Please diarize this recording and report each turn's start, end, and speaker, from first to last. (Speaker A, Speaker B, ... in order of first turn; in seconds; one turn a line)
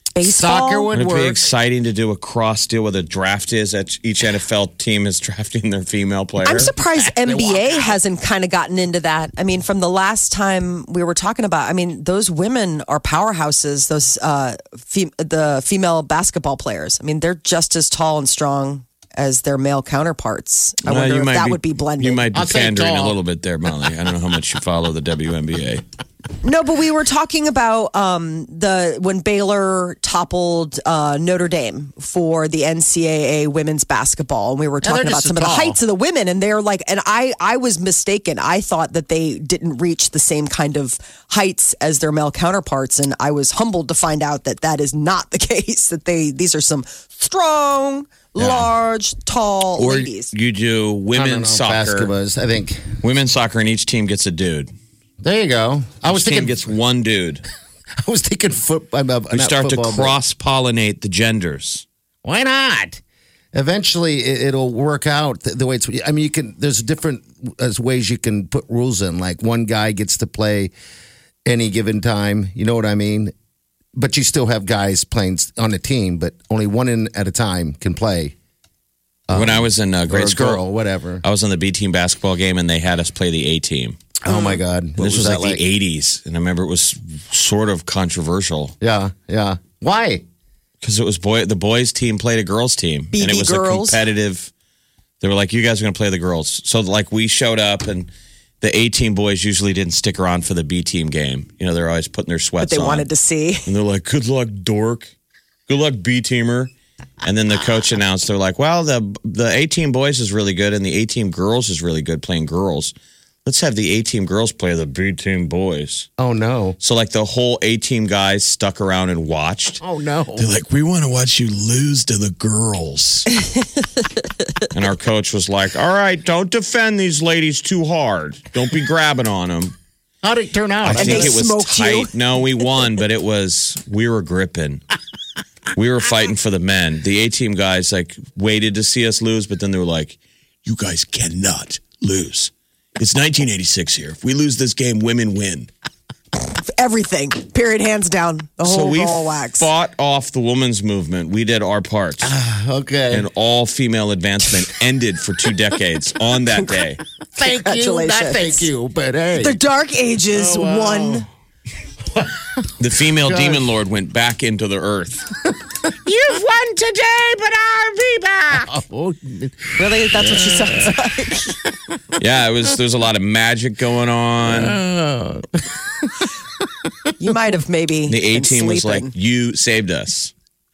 Speaker A: 0.1-0.9
Speaker B: 0.2-1.4
Speaker C: 0.9-6.7
Speaker A: 6.4-22.3
Speaker B: 6.8-8.0
Speaker C: 20.9-25.8
Speaker B: 22.3-23.2
Speaker A: 26.4-50.3
Speaker B: 34.8-35.8
Speaker B: 48.4-48.7
Speaker C: 49.8-52.1
Speaker B: 51.1-53.0
Speaker C: 53.0-54.7
Speaker B: 55.2-56.7
Speaker C: 56.1-57.5
Speaker B: 58.0-60.2
Speaker C: 59.3-61.9
Speaker B: 62.2-63.0
Speaker B: 63.5-70.7
Speaker B: 71.5-73.3
Speaker B: 74.0-78.3
Speaker B: 79.3-81.2
Speaker C: 79.3-80.6
Speaker C: 81.2-84.0
Speaker B: 84.2-85.6
Speaker A: 84.3-84.6
Speaker C: 85.0-88.7
Speaker B: 88.8-90.2
Speaker C: 90.8-94.5
Speaker A: 93.1-94.0
Speaker C: 95.2-98.1
Speaker C: 98.6-103.1
Speaker A: 102.6-103.7
Speaker C: 103.7-105.1
Speaker C: 105.7-106.7
Speaker C: 107.2-112.9
Speaker C: 113.5-116.1
Speaker B: 116.2-116.8
Speaker C: 116.8-119.8
Speaker B: 119.8-120.5
Speaker C: 120.4-123.3
Speaker C: 124.7-129.7
Speaker B: 130.2-131.4
Speaker C: 130.8-134.8
Speaker A: 131.0-132.1
Speaker C: 135.8-145.7
Speaker A: 146.6-149.7
Speaker C: 148.6-152.3
Speaker B: 152.2-153.3
Speaker C: 153.1-157.0
Speaker B: 157.3-159.6
Speaker A: 157.4-158.7
Speaker A: 159.4-161.2
Speaker B: 160.3-161.3
Speaker B: 162.1-163.7
Speaker C: 162.8-165.3
Speaker C: 166.2-168.5
Speaker B: 168.5-170.9
Speaker A: 169.8-171.6
Speaker B: 171.5-172.2
Speaker C: 172.2-174.8
Speaker B: 174.4-177.1
Speaker A: 177.2-179.1
Speaker C: 178.1-180.3